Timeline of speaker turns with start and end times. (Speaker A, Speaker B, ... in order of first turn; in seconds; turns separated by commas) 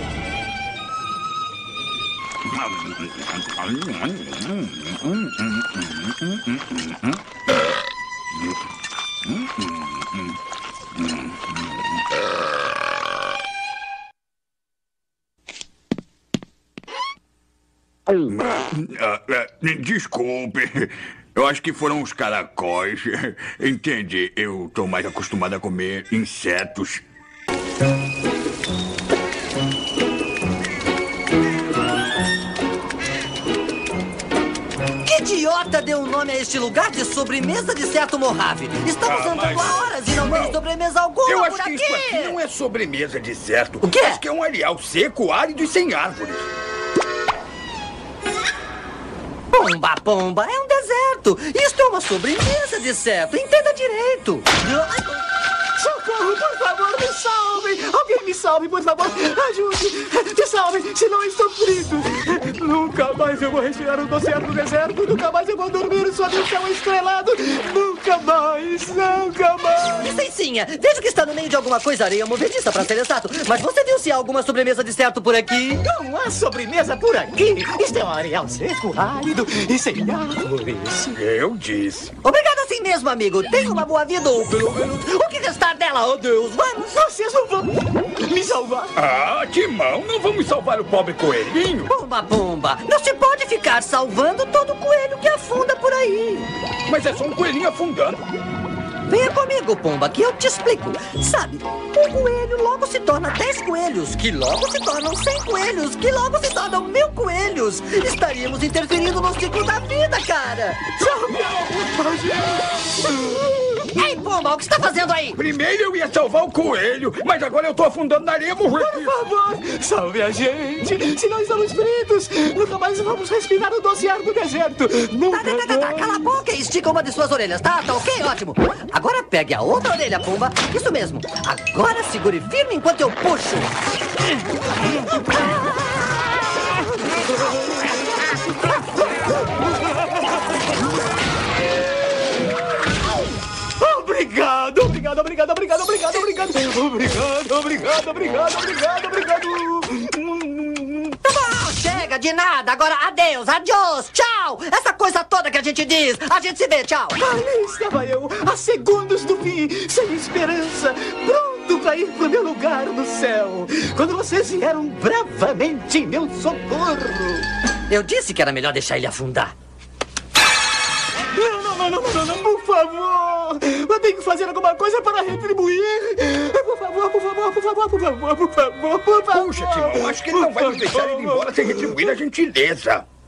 Speaker A: 2.5-7.2, Speaker A: 9.2-10.3, Speaker A: 11.0-11.7, Speaker A: 18.3-27.0, Speaker B: 35.0-42.4, Speaker A: 39.0-40.6, Speaker A: 41.2-46.6, Speaker B: 43.8-44.2, Speaker B: 49.5-54.5, Speaker C: 54.6-55.1, Speaker C: 55.8-70.0, Speaker B: 70.0-75.8, Speaker C: 75.8-81.1, Speaker A: 81.1-82.1, Speaker B: 82.2-87.0, Speaker C: 87.0-88.9, Speaker A: 89.0-91.9, Speaker B: 91.9-96.5, Speaker A: 96.9-98.3, Speaker B: 99.1-110.9, Speaker C: 111.0-113.8, Speaker B: 113.9-115.4, Speaker A: 115.3-119.2, Speaker C: 118.7-126.2, Speaker B: 125.3-133.7, Speaker C: 143.8-151.1, Speaker B: 151.2-157.2, Speaker C: 157.2-167.4, Speaker B: 167.9-169.5, Speaker C: 171.3-181.7, Speaker A: 179.3-183.0